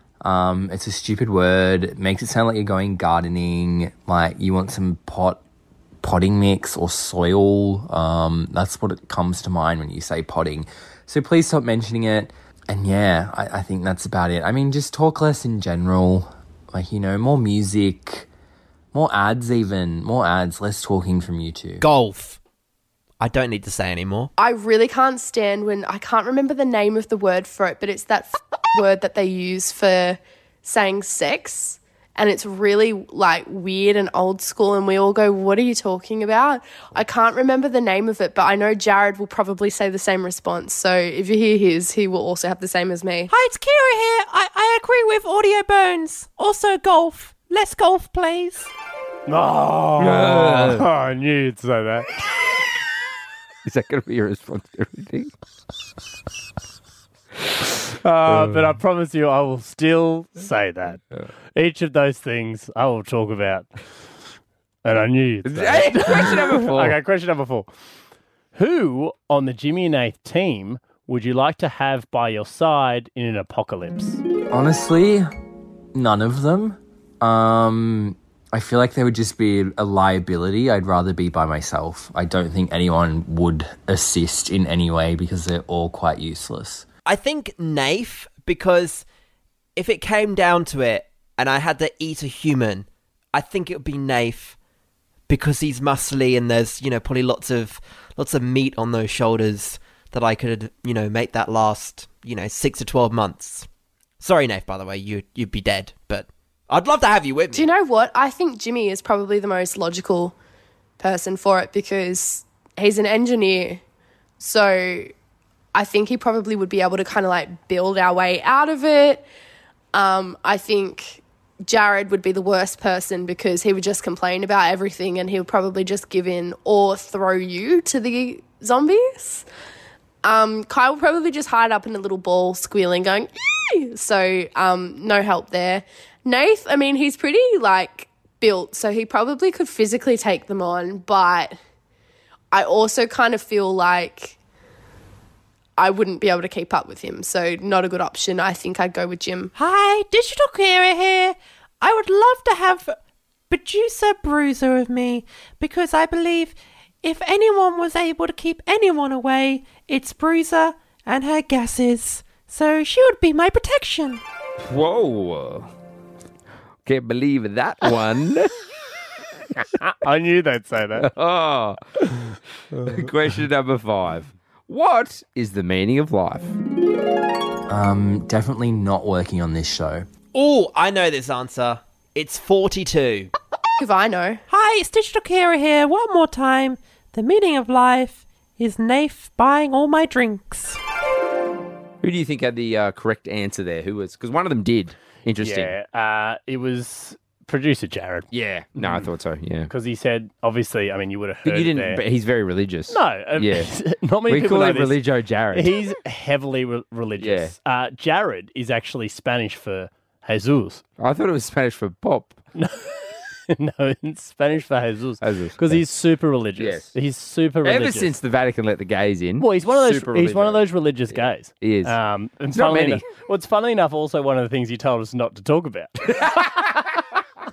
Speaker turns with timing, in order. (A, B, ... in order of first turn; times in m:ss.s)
0:00.2-0:05.4 A
0:06.0-0:18.3 A
0:18.9-0:21.8 A
0:21.8-0:22.4 B
0:23.2-0:24.3 B
0:24.4-0:43.3 C
0:43.3-0:48.7 D
0:49.3-0:52.1 E
0:50.0-0:50.9 F
0:53.6-0:55.3 F
0:58.0-1:03.7 E
0:58.3-0:58.8 F
1:04.8-1:07.7 E
1:05.4-1:07.0 F
1:08.5-1:14.2 E
1:14.5-1:15.3 A
1:15.9-1:26.9 A
1:27.1-1:29.0 B
1:29.8-1:34.6 B
1:35.3-1:43.7 B
1:44.2-1:47.7 B
1:47.5-1:50.3 C
1:51.0-1:53.8 C
1:54.4-1:55.1 C
1:55.8-1:59.2 C
1:59.9-2:09.4 C
2:10.2-2:21.6 C
2:22.5-2:24.4 C
2:25.8-2:29.5 C
2:29.6-2:33.0 D
2:33.5-2:44.2 D
2:44.6-2:45.7 F
2:46.8-2:48.5 F
2:49.8-2:51.1 E
2:51.0-2:51.8 F
2:52.8-2:56.6 F
2:57.7-3:00.1 A
3:00.3-3:03.3 B
3:03.8-3:04.4 C
3:04.5-3:10.8 D
3:12.0-3:15.7 F
3:15.4-3:19.0 E
3:18.3-3:19.7 F
3:19.7-3:22.0 E
3:21.4-3:23.7 F
3:22.9-3:25.0 E
3:24.3-3:25.7 F
3:25.5-3:30.8 E
3:27.2-3:27.5 F
3:31.0-3:32.4 F
3:32.6-3:38.1 E
3:35.2-3:35.8 F
3:36.6-3:36.9 F
3:37.6-3:42.0 F
3:39.4-3:46.0 E
3:42.5-3:43.0 F
3:46.1-3:47.0 F